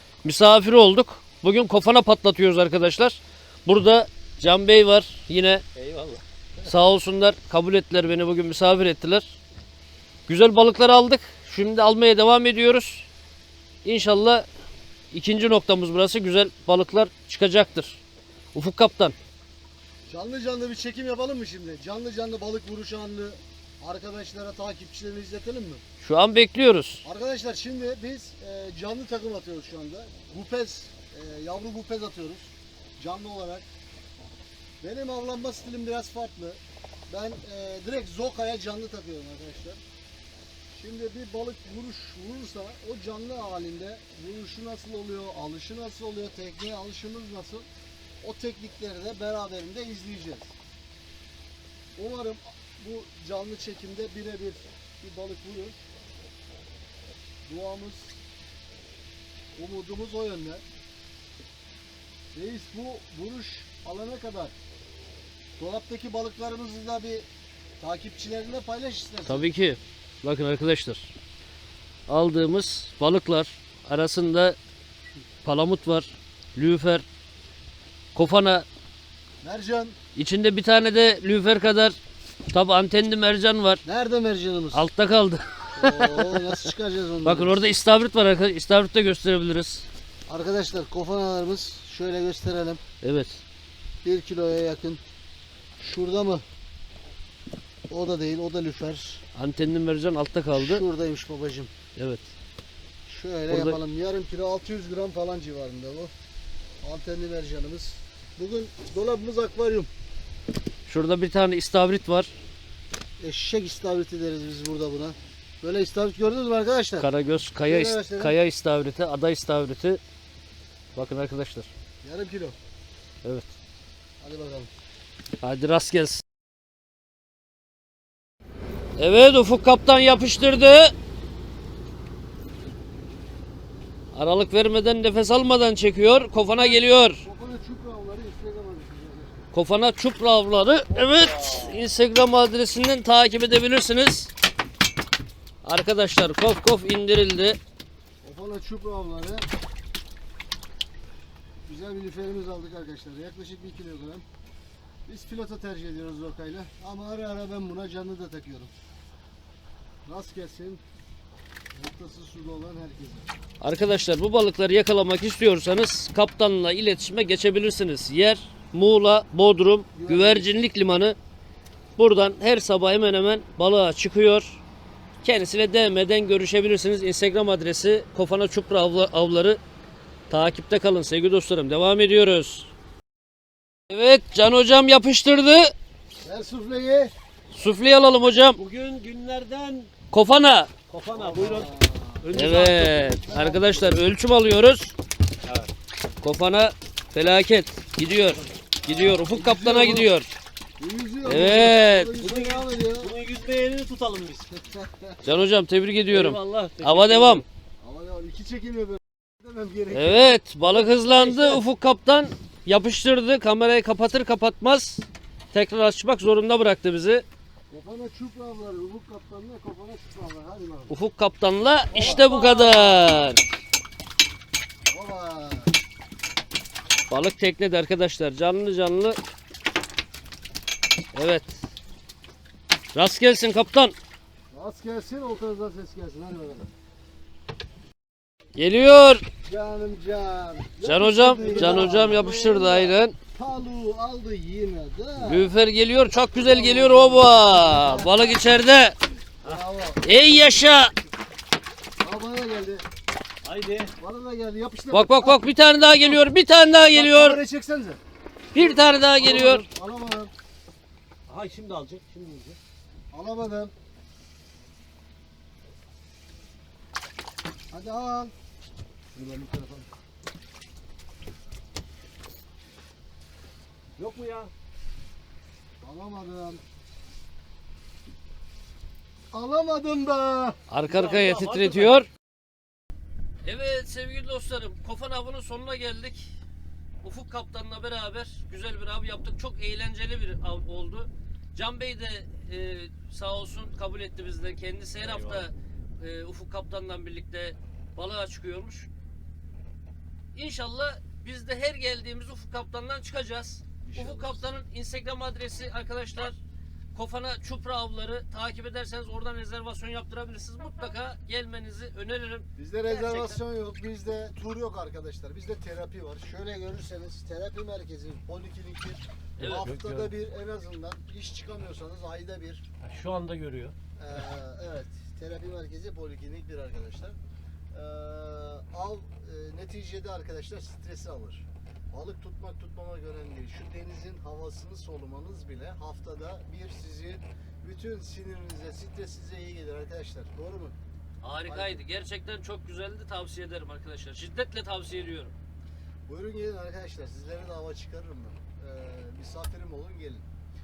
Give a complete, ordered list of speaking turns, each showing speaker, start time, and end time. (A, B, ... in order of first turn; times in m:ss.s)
0:00.2-0:05.6 A
0:05.8-0:06.2 B
0:06.6-0:09.3 A
0:10.3-0:13.1 A
0:13.8-0:14.5 A
0:15.1-0:18.0 A
0:18.5-0:19.2 A
0:20.1-0:25.8 C
0:26.0-0:27.0 A
0:27.0-0:33.6 C
0:34.8-0:39.8 C
0:40.7-0:47.7 C
0:48.2-0:50.5 C
0:52.0-0:55.8 C
0:57.5-0:58.2 C
0:59.6-1:00.6 C
1:02.3-1:04.5 C
1:05.6-1:07.3 C
1:07.8-1:09.5 C
1:09.3-1:11.1 A
1:12.1-1:14.6 A
1:15.4-1:17.0 A
1:18.2-1:18.7 A
1:19.4-1:20.0 C
1:20.2-1:22.0 A
1:22.5-1:23.8 A
1:23.8-1:24.8 C
1:24.7-1:26.6 A
1:25.8-1:27.7 C
1:27.2-1:29.8 A
1:30.3-1:32.8 C
1:33.0-1:33.4 A
1:34.0-1:35.0 C
1:35.8-1:36.4 C
1:37.9-1:39.2 C
1:39.4-1:40.8 A
1:40.5-1:41.7 C
1:42.0-1:42.2 A
1:43.1-1:46.1 C
1:43.5-1:43.8 A
1:46.8-1:49.9 C
1:50.9-1:52.3 A
1:53.2-1:57.1 C
1:57.0-2:00.0 A
1:57.7-1:58.4 C
2:01.0-2:01.7 A
2:02.0-2:02.6 C
2:03.2-2:03.5 A
2:04.2-2:04.7 C
2:05.4-2:06.2 A
2:09.0-2:10.9 A
2:14.2-2:17.2 A
2:16.6-2:19.4 C
2:19.5-2:24.3 A
2:20.9-2:21.8 C
2:25.6-2:27.6 A
2:28.2-2:29.5 C
2:31.7-2:34.2 C
2:35.1-2:38.7 C
2:40.1-2:40.8 C
2:41.8-2:43.3 C
2:43.6-2:51.2 A
2:49.9-2:50.5 C
2:52.0-2:54.6 A
2:55.2-2:59.6 A
3:00.3-3:02.7 A
3:03.9-3:05.7 A
3:06.2-3:07.1 C
3:07.5-3:08.6 A
3:08.6-3:09.9 B
3:10.1-3:10.7 A
3:10.9-3:11.7 B
3:11.2-3:12.4 C
3:12.2-3:13.2 B
3:12.3-3:15.0 A
3:13.2-3:14.0 C
3:15.4-3:15.7 B
3:16.2-3:20.3 A
3:18.9-3:20.1 C
3:20.8-3:23.1 C
3:21.2-3:22.1 A
3:22.1-3:24.5 B
3:24.5-3:25.2 C
3:25.2-3:27.4 A
3:26.1-3:27.4 B
3:27.8-3:31.6 C
3:29.9-3:37.2 A
3:37.7-3:41.0 C
3:40.9-3:43.4 A
3:41.9-3:43.2 C
3:44.9-3:45.7 C
3:47.1-3:49.2 A
3:51.1-3:51.6 A
3:52.9-3:54.0 A
3:54.5-3:56.7 C
3:58.6-3:59.2 A
3:59.4-4:05.5 C
4:00.8-4:03.2 A
4:01.3-4:02.1 B
4:05.2-4:09.0 A
4:06.4-4:08.4 C
4:09.4-4:10.5 C
4:10.0-4:11.0 A
4:12.0-4:12.8 C
4:13.4-4:13.9 B
4:14.0-4:15.4 C
4:14.9-4:17.4 A
4:16.9-4:18.0 C
4:18.5-4:19.6 A
4:18.6-4:20.3 C
4:21.3-4:22.6 B
4:23.1-4:23.7 C
4:27.7-4:28.3 C
4:29.1-4:29.9 C
4:34.0-4:34.5 B
4:35.8-4:36.6 C
4:39.3-4:40.6 C
4:40.7-4:42.1 A
4:40.8-4:41.9 B
4:43.4-4:46.3 A
4:47.0-4:58.9 A
4:55.1-4:55.4 B
5:00.3-5:06.4 A
5:03.8-5:04.5 C
5:06.9-5:13.4 A
5:12.6-5:22.6 C
5:19.4-5:19.7 A
5:19.4-5:20.1 B
5:22.8-5:23.8 B
5:24.0-5:27.2 C
5:27.7-5:40.8 C
5:41.2-5:45.3 A
5:41.5-5:41.8 C
5:46.1-5:50.2 C